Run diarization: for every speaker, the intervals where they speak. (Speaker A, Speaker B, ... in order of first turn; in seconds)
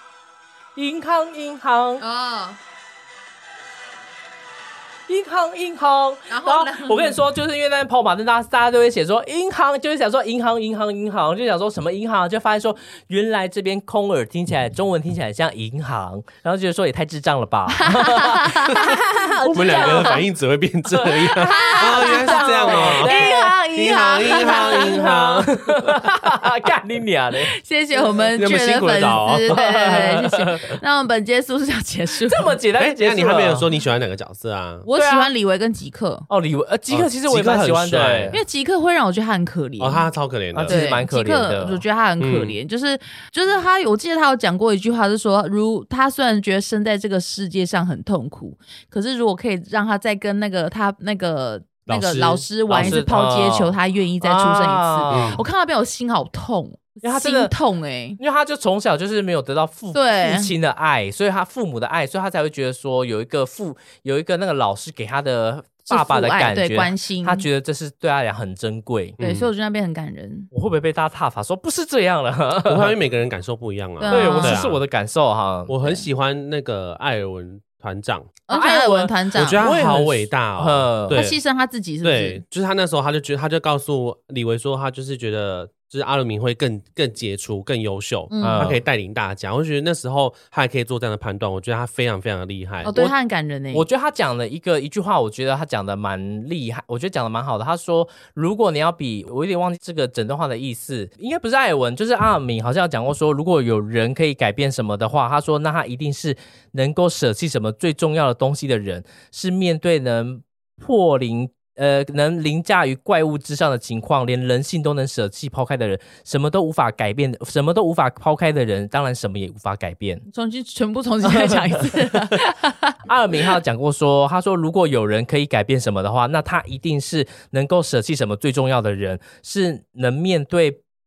Speaker A: 0.7-2.0, 5.1-20.2, 21.0-23.5, 24.1-28.3, 29.5-30.8, 32.2-33.7, 34.9-35.3, 36.3-38.4, 40.5-41.8, 52.7-55.4, 57.0-57.5, 58.2-69.2, 70.5-72.9, 74.1-76.0, 78.5-81.2, 88.4-88.8, 92.8-93.1, 93.7-120.2, 121.2-121.9, 123.0-130.8
Speaker B: 2.0-2.6, 6.3-7.2, 17.8-19.0, 19.5-20.2, 21.3-25.1, 27.5-32.6, 34.8-36.2, 38.3-40.1, 40.7-58.2, 59.9-60.5, 65.9-67.5, 69.2-70.5, 74.0-74.6, 78.5-79.7, 81.1-82.4, 88.3-88.8, 92.8-93.9, 120.3-122.9
Speaker C: 19.5-23.2, 23.7-25.6, 28.4-29.6, 32.8-34.9, 36.9-38.4, 39.8-40.8, 42.2-42.6, 51.9-53.0, 55.1-55.4, 69.2-69.5, 72.7-74.8, 75.7-78.3, 79.3-81.4, 82.0-92.9